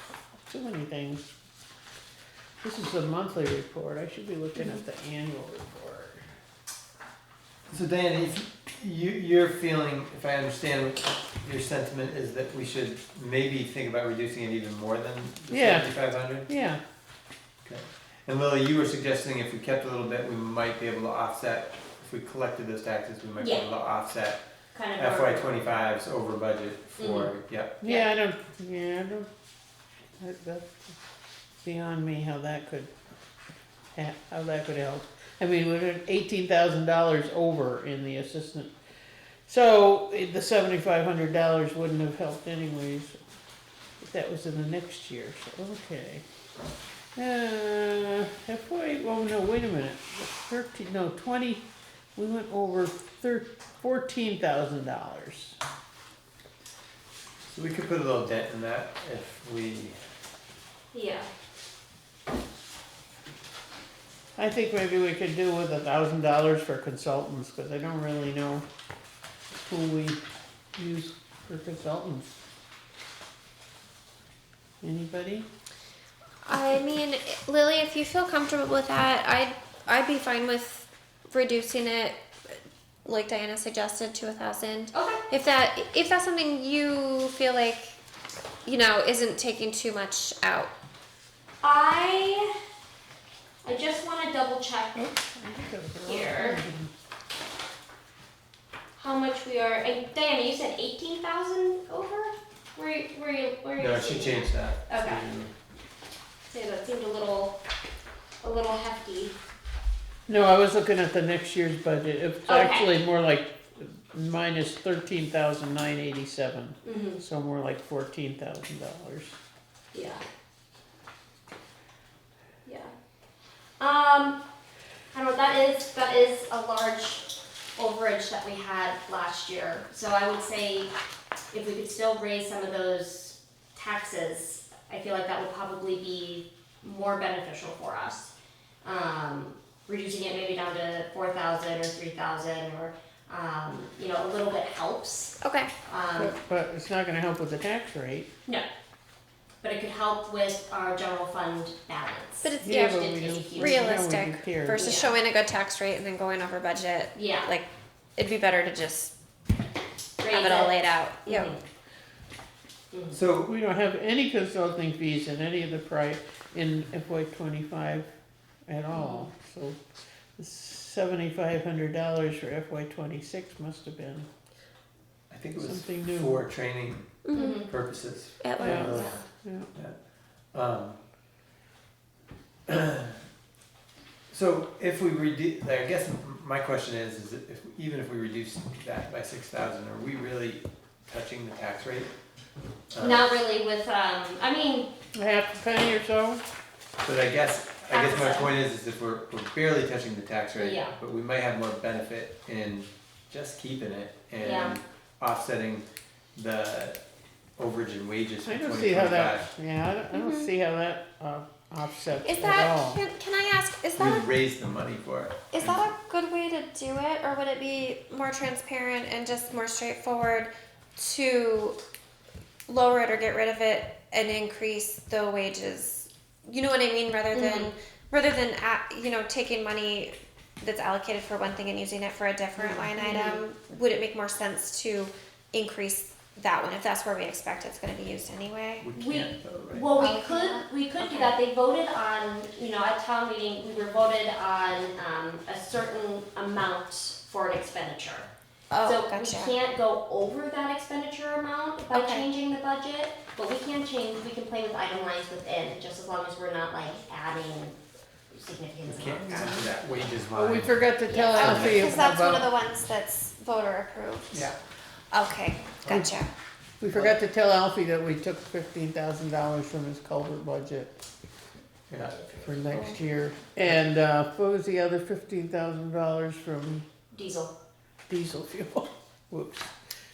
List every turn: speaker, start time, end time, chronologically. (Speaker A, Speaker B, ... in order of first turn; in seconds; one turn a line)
Speaker A: 0.4-1.3
Speaker A: 2.6-6.2
Speaker B: 7.7-16.4
Speaker A: 15.5-16.8
Speaker B: 17.6-24.4
Speaker C: 23.4-23.7
Speaker C: 24.7-25.6
Speaker B: 24.9-27.8
Speaker C: 27.0-27.3
Speaker C: 27.8-28.1
Speaker A: 27.8-29.3
Speaker A: 30.2-30.9
Speaker A: 31.6-32.9
Speaker A: 34.0-38.7
Speaker A: 39.5-43.2
Speaker A: 44.0-46.2
Speaker A: 47.1-51.6
Speaker A: 52.1-55.6
Speaker B: 57.5-60.0
Speaker C: 60.9-61.3
Speaker A: 64.3-68.6
Speaker A: 69.6-70.2
Speaker A: 70.8-72.3
Speaker A: 74.8-75.5
Speaker D: 76.4-82.2
Speaker D: 83.0-88.0
Speaker C: 84.9-85.2
Speaker D: 88.6-90.7
Speaker C: 91.6-92.5
Speaker C: 93.6-95.1
Speaker A: 95.0-96.9
Speaker C: 96.0-96.6
Speaker C: 99.0-105.2
Speaker B: 103.8-105.5
Speaker C: 106.5-107.6
Speaker C: 108.4-109.3
Speaker A: 110.3-119.4
Speaker C: 112.5-113.0
Speaker C: 116.8-117.2
Speaker C: 119.9-120.2
Speaker C: 122.6-122.9
Speaker C: 123.8-124.4
Speaker C: 125.1-130.9
Speaker C: 131.5-138.3
Speaker C: 138.8-145.3
Speaker D: 145.4-145.7
Speaker C: 145.9-146.3
Speaker A: 146.2-148.3
Speaker C: 149.6-154.0
Speaker D: 152.4-159.1
Speaker A: 152.6-155.0
Speaker C: 154.8-155.1
Speaker C: 157.1-157.5
Speaker C: 160.2-161.6
Speaker D: 160.3-161.5
Speaker C: 162.9-163.2
Speaker B: 163.1-163.5
Speaker A: 163.4-168.1
Speaker A: 168.7-169.8
Speaker C: 168.9-169.3
Speaker A: 170.4-174.3
Speaker B: 175.3-179.9
Speaker A: 175.6-176.4
Speaker D: 177.2-177.6
Speaker C: 177.3-177.7
Speaker D: 178.4-178.9
Speaker A: 178.6-179.7
Speaker C: 178.7-179.2
Speaker B: 180.5-181.0
Speaker B: 182.7-183.2
Speaker B: 184.3-192.1
Speaker B: 192.9-193.3
Speaker C: 192.9-194.9
Speaker A: 195.1-196.4
Speaker B: 197.0-207.0
Speaker C: 197.9-198.5
Speaker C: 200.5-200.9
Speaker C: 204.4-204.8
Speaker B: 207.6-209.5
Speaker A: 208.4-213.0
Speaker D: 210.1-210.4
Speaker D: 212.2-214.3
Speaker B: 213.9-215.9
Speaker D: 215.5-221.8
Speaker D: 222.7-238.9
Speaker C: 227.3-227.7
Speaker C: 232.6-233.4
Speaker B: 238.8-240.0
Speaker C: 238.9-248.3
Speaker D: 239.9-241.3
Speaker D: 248.7-249.5
Speaker C: 248.8-257.8
Speaker D: 251.9-252.2
Speaker C: 258.3-259.7
Speaker B: 258.8-260.8
Speaker A: 260.3-262.5
Speaker C: 261.1-261.8
Speaker D: 261.3-264.4
Speaker B: 261.4-261.8
Speaker B: 264.3-264.6
Speaker D: 265.1-266.3
Speaker B: 265.8-266.0
Speaker A: 266.8-270.9
Speaker B: 271.9-272.8
Speaker A: 272.4-276.9
Speaker C: 277.1-277.5
Speaker A: 278.1-279.7